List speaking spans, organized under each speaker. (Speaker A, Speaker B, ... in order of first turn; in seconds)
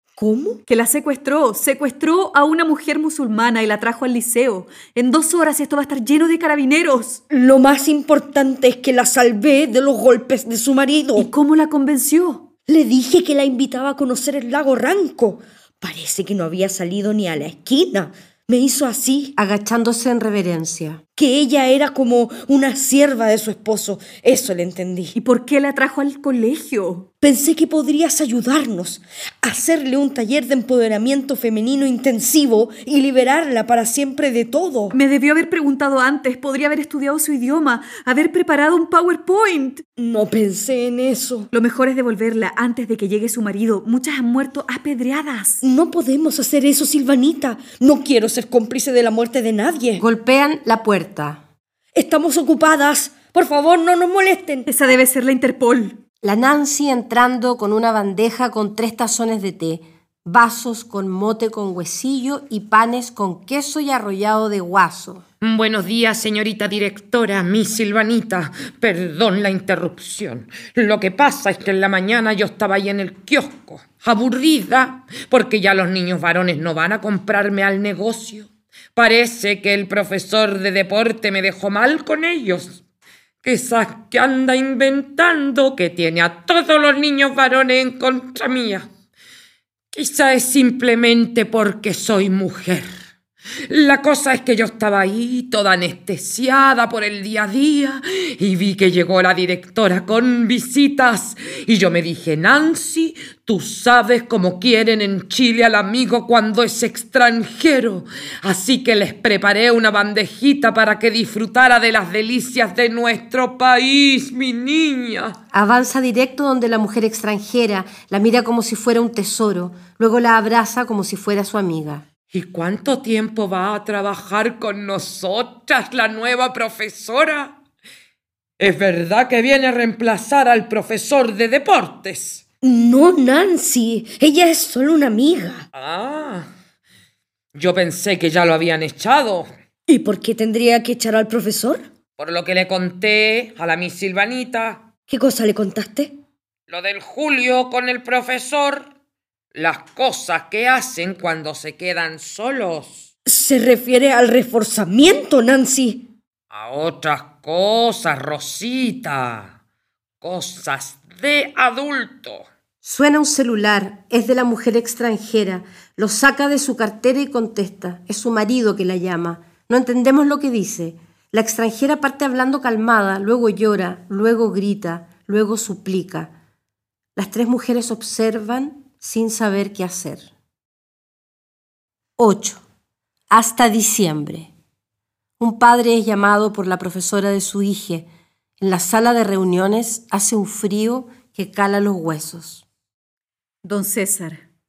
Speaker A: 0.2-0.6, 7.3-11.3, 12.7-19.3, 21.1-25.1, 27.2-35.0, 40.0-41.5, 45.6-50.0, 51.9-54.7, 132.6-135.7, 139.9-141.8, 145.1-146.2, 153.2-156.1
Speaker B: 0.7-7.2, 11.2-12.5, 25.1-27.1, 34.9-39.8, 41.5-45.6, 54.7-56.0, 193.6-194.4
Speaker C: 19.4-21.0, 50.0-51.4, 56.2-65.2, 115.5-122.0, 162.8-176.3, 177.2-180.3, 182.2-182.6, 183.3-184.5, 185.4-188.1, 188.6-192.6
Speaker D: 65.4-82.8, 83.4-88.9, 89.9-92.9, 93.7-115.3, 122.3-127.6, 128.6-132.4, 135.7-136.5, 137.5-139.5, 142.2-144.9, 146.7-148.9, 149.5-153.1, 156.5-159.6, 160.2-162.5